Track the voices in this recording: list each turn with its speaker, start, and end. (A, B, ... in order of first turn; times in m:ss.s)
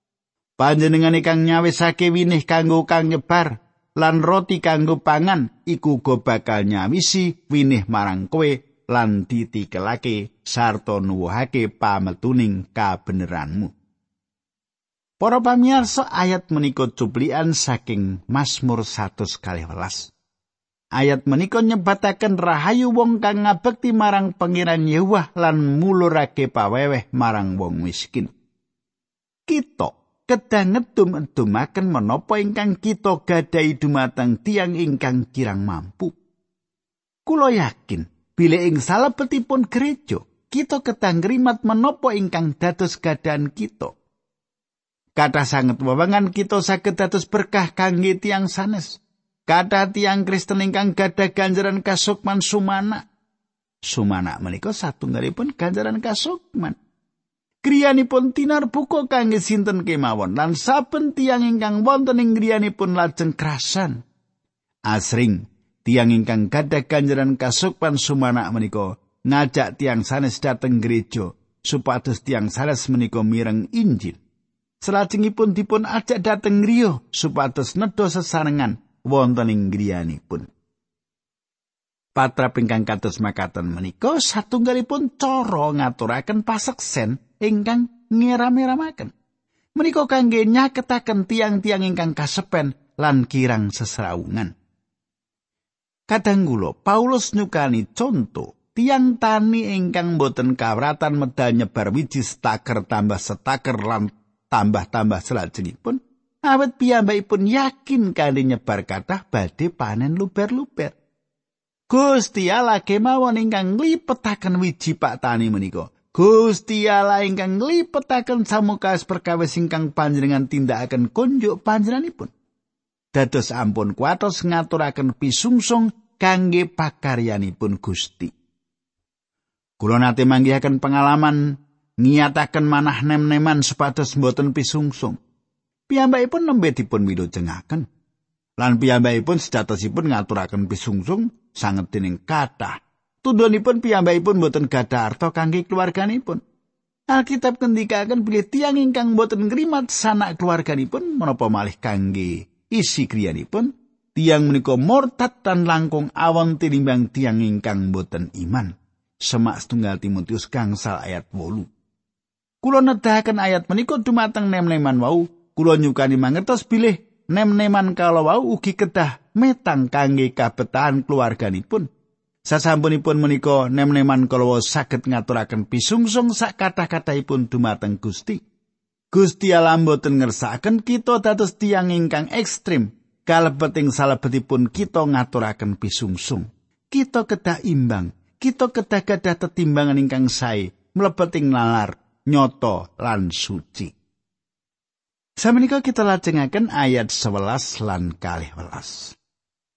0:00.6-0:13.7 A
0:15.2-0:20.1 A
0:21.0-0:28.3 A
0:29.5-0:36.2 A
0:37.3-0:44.0 A
0:45.2-0:53.1 A
0:53.8-0:56.8 A
0:57.6-1:04.0 A
1:04.9-1:14.2 A
1:14.8-1:20.5 A
1:22.2-1:29.1 A
1:29.8-1:34.5 A
1:36.1-1:51.0 A
1:51.9-2:02.3 A
2:03.1-2:08.3 A
2:09.8-2:15.2 A
2:15.9-2:17.8 A
2:18.6-2:26.4 A
2:27.1-2:38.7 A
2:39.2-2:41.7 A
2:42.6-2:51.9 A
2:52.5-2:58.4 A
2:59.1-3:13.9 A
3:15.4-3:19.2 A